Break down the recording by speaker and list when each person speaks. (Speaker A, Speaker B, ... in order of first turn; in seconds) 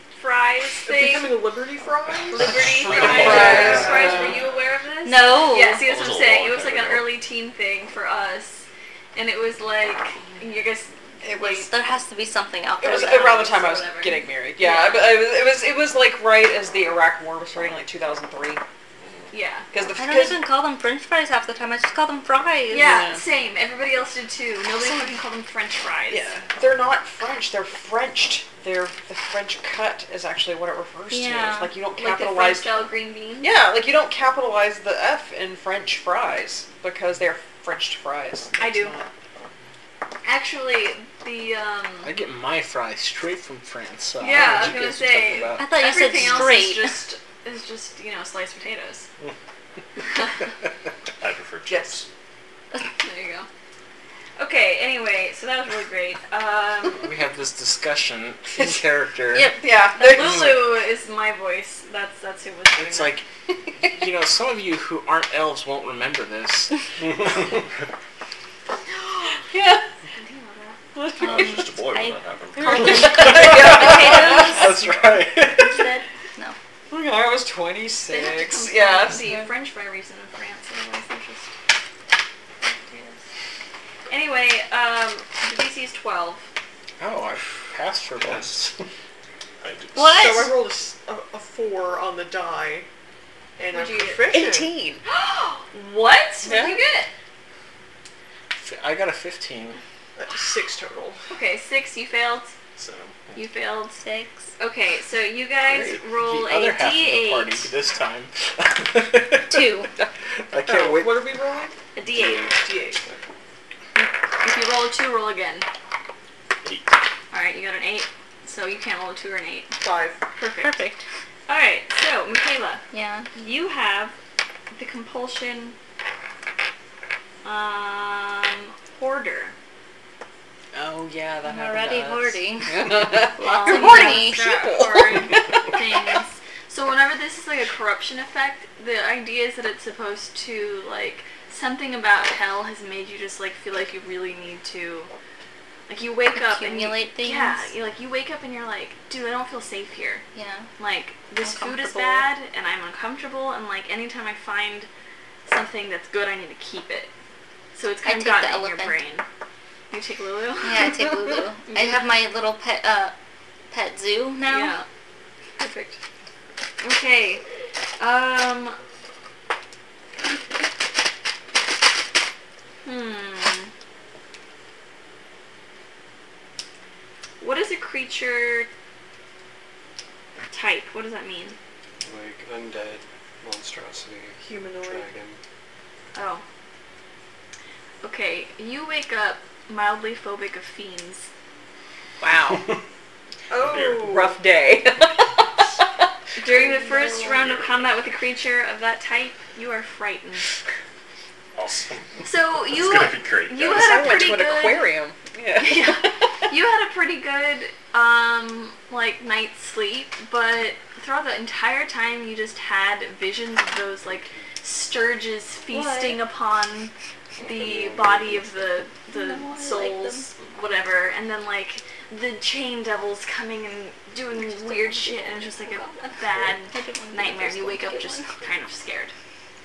Speaker A: 0.1-1.4, 2.3-11.7, 12.8-15.2, 19.3-19.7, 22.7-26.3, 31.9-33.5, 38.6-39.0, 40.2-42.1, 44.2-49.1, 53.0-53.5, 54.4-57.1, 59.9-63.2, 70.1-70.8, 78.1-81.5, 82.6-83.2, 84.1-86.5, 93.7-94.3, 95.0-97.1, 101.3-102.5, 103.3-104.0, 104.6-107.7, 111.9-112.5, 114.0-115.7, 117.3-119.8, 120.3-120.8, 121.5-122.8, 123.3-124.2, 124.7-125.8, 127.4-129.5, 133.4-145.1, 145.9-150.2, 150.8-154.9, 155.4-157.1, 157.7-159.2, 159.9-161.0, 161.7-162.1, 164.5-164.8, 165.6-165.9, 166.8-167.4, 168.0-168.8, 172.8-173.7, 177.4-178.7, 180.5-181.6, 186.1-186.4, 188.0-191.3, 196.4-200.5, 202.2-204.9, 205.6-229.1
Speaker B: 0.8-4.0, 90.0-92.9, 93.6-94.7, 100.2-101.2, 110.7-111.7, 112.5-113.0, 119.8-120.2, 184.4-185.1, 193.5-194.4
Speaker C: 2.4-3.8, 5.8-7.2, 19.0-19.3, 51.2-52.0, 71.2-73.4, 89.6-90.2, 102.8-103.4, 116.6-117.0, 193.6-194.2, 197.2-197.9, 201.5-204.3
Speaker D: 3.0-4.3, 11.2-11.7, 12.8-18.6, 19.7-20.4, 22.8-23.2, 24.8-25.1, 26.1-32.8, 33.4-39.0, 51.7-52.0, 59.5-60.7, 69.5-69.8, 70.9-71.7, 72.6-74.6, 76.9-79.5, 94.3-95.0, 96.4-96.8, 110.7-111.0, 130.7-135.9, 192.2-192.7, 193.9-195.4, 203.7-206.1
Speaker E: 3.4-4.3, 88.2-88.8, 112.1-113.2, 182.0-185.4, 217.4-218.8
Speaker F: 5.0-5.8, 11.3-13.6, 19.9-23.1, 31.1-31.8, 45.5-47.0, 71.8-74.8, 89.9-90.6, 104.0-104.5, 109.5-109.9, 120.6-121.0, 122.9-123.3, 131.4-134.5, 146.3-147.7, 150.3-150.7, 151.4-152.2, 158.0-159.0, 160.6-163.1, 163.7-164.8, 196.8-197.2, 215.7-216.2, 219.1-220.3, 224.3-228.4
Speaker G: 42.0-46.5, 57.0-59.5, 62.7-63.3, 63.8-67.5, 73.4-75.8, 87.0-88.7, 98.5-99.8, 106.1-109.8, 110.5-110.9